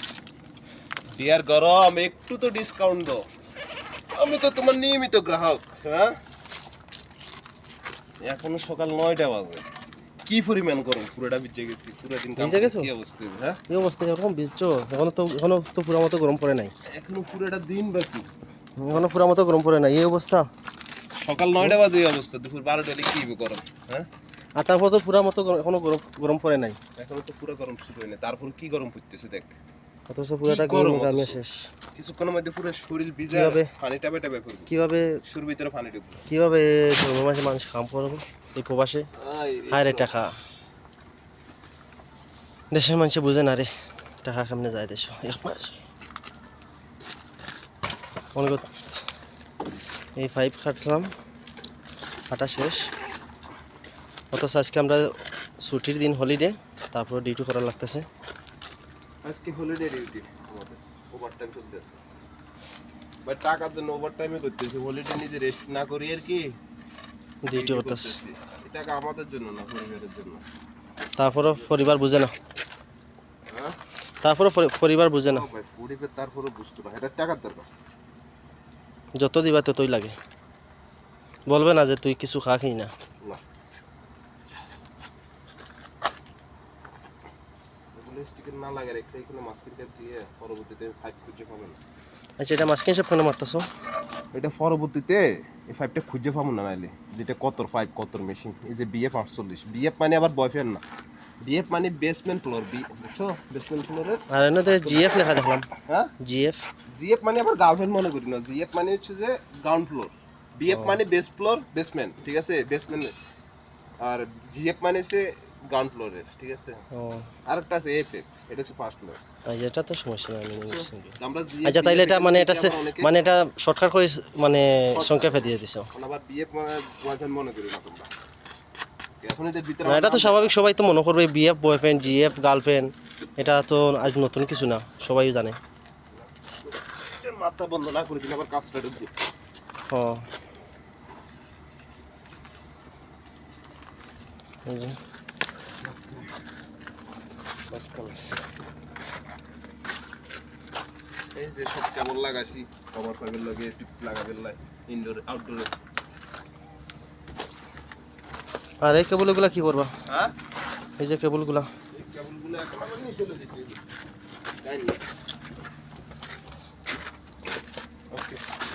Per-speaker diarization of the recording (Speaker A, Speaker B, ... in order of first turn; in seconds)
Speaker A: 1.2-3.3, 4.2-6.2, 8.2-9.6, 10.3-13.6, 16.9-18.3, 21.2-24.1, 27.0-29.6, 30.4-31.4, 31.9-34.7, 35.2-36.2, 39.2-40.2, 59.2-62.0, 63.2-66.6, 67.5-70.4, 73.5-73.8, 75.2-77.7, 87.9-91.8, 94.3-100.8, 101.4-105.2, 106.9-113.1, 114.0-116.8, 117.5-119.2, 120.7-123.3, 124.9-128.1, 129.2-130.5, 136.1-139.1, 145.8-146.3, 147.7-148.5, 151.3-155.7, 160.1-160.3, 161.9-163.8, 164.6-165.0, 168.1-168.4
Speaker B: 12.4-12.9, 13.7-16.7, 18.8-20.5, 24.6-26.8, 30.1-31.6, 33.3-33.7, 34.7-35.1, 36.3-39.1, 39.7-40.3, 42.7-43.7, 44.2-45.8, 48.4-49.0, 50.2-51.1, 52.3-52.9, 54.3-55.1, 55.6-58.1, 67.5-68.2, 71.2-72.3, 74.2-75.5, 79.2-80.2, 81.5-82.9, 92.4-93.7, 104.3-105.7, 106.2-106.6, 110.7-111.0, 116.9-117.3, 119.5-121.1, 121.6-125.9, 129.8-135.6, 139.9-140.2, 144.7-145.0, 158.8-159.9, 161.0-161.7